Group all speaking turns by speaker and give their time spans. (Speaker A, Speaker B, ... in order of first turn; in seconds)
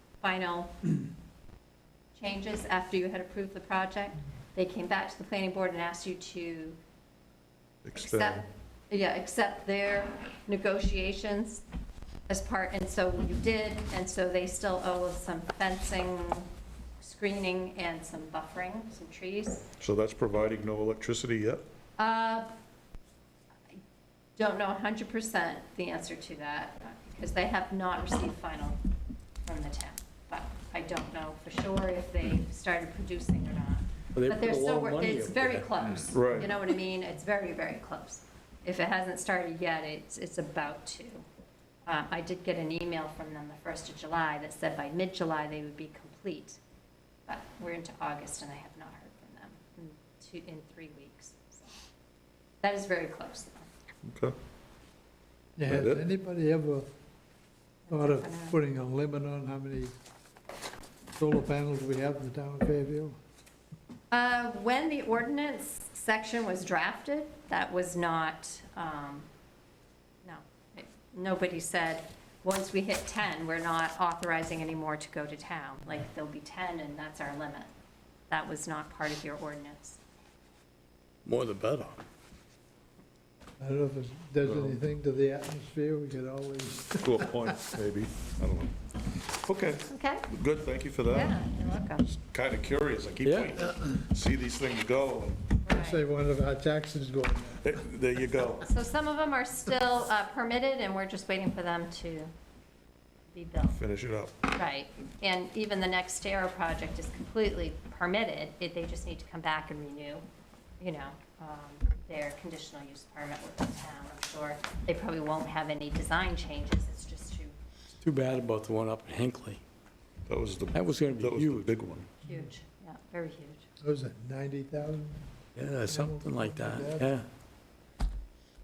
Speaker A: 0.2-0.8, 2.1-6.8, 7.9-11.6, 12.3-16.5, 17.0-19.7, 22.0-22.5, 24.4-28.8, 29.4-41.2, 41.9-46.6, 47.3-51.8, 52.6-53.7, 57.9-58.6, 64.1-69.3, 70.2-77.7, 78.3-80.0, 89.9-90.2, 91.1-92.1, 95.6-96.0, 98.6-102.3, 103.3-103.8, 104.5-110.2, 110.8-117.5, 122.2-123.7
Speaker B: 7.8-8.4, 19.8-21.7, 36.1-36.5, 54.0-54.4, 55.7-56.0, 87.0-91.4, 92.0-95.5, 97.6-98.7, 103.7-104.3, 120.3-122.1
Speaker C: 34.1-35.7, 81.2-82.0, 93.2-93.6, 118.0-119.6, 120.7-121.7, 125.5-127.3
Speaker D: 55.6-56.9, 57.9-59.9, 61.2-63.2, 83.6-87.6, 95.7-97.7, 123.8-125.3, 125.8-127.1